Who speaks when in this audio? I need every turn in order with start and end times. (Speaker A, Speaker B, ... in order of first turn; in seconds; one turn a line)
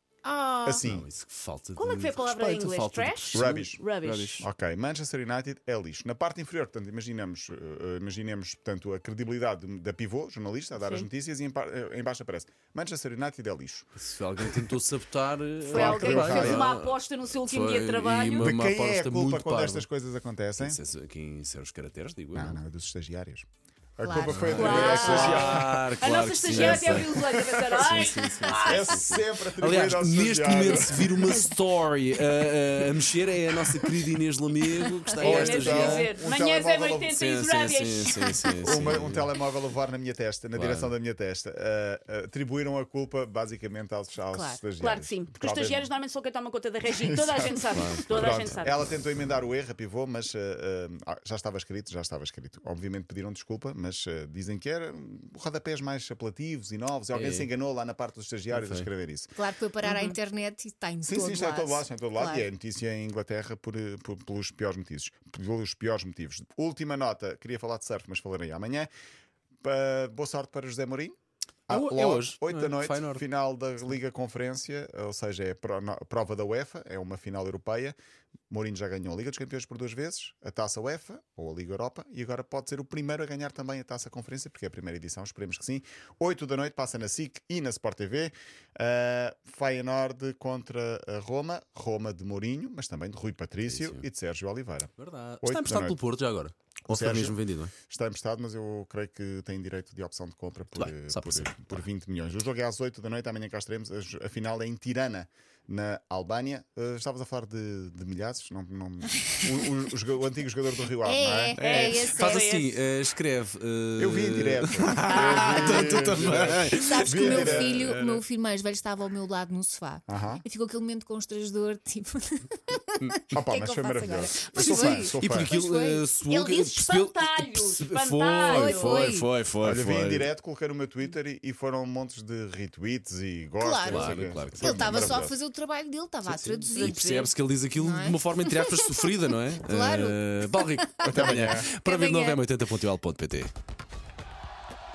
Speaker A: 0.2-0.8
Speaker B: 0.7-1.1
Speaker C: 0.8-4.5
Speaker D: 1.8-4.4
Speaker B: 3.3-3.8
Speaker B: 4.4-13.9
Speaker D: 10.8-11.1
Speaker C: 14.0-19.9
Speaker B: 15.7-16.7
Speaker D: 15.7-18.5
Speaker B: 18.4-20.8
Speaker C: 20.6-22.6
Speaker B: 22.3-25.9
Speaker A: 24.0-25.3
Speaker C: 24.2-27.2
Speaker D: 24.5-29.1
Speaker B: 26.5-31.4
Speaker C: 27.8-36.1
Speaker D: 35.2-38.3
Speaker B: 35.2-37.2
Speaker C: 37.1-39.3
Speaker B: 38.6-45.9
Speaker C: 40.5-40.9
Speaker A: 44.3-44.6
Speaker D: 44.8-48.8
Speaker B: 46.9-59.4
Speaker C: 47.7-48.6
Speaker C: 57.1-57.5
Speaker C: 58.5-58.9
Speaker A: 59.4-62.5
Speaker D: 59.8-60.1
Speaker B: 61.0-68.9
Speaker B: 69.6-71.2
Speaker B: 71.7-78.0
Speaker C: 71.7-73.2
Speaker B: 78.5-96.0
Speaker C: 93.7-94.0
Speaker C: 95.0-97.7
Speaker B: 96.9-111.6
Speaker C: 100.8-101.8
Speaker A: 111.0-112.5
Speaker C: 111.6-118.2
Speaker D: 111.6-112.8
Speaker B: 114.0-117.8
Speaker A: 115.1-126.0
Speaker B: 120.1-120.4
Speaker B: 123.3-125.5
Speaker C: 124.5-130.3
Speaker D: 126.2-129.1
Speaker A: 128.5-129.3
Speaker B: 129.6-135.3
Speaker A: 133.6-142.4
Speaker C: 133.8-135.3
Speaker C: 136.2-143.5
Speaker D: 136.8-137.2
Speaker B: 141.1-141.7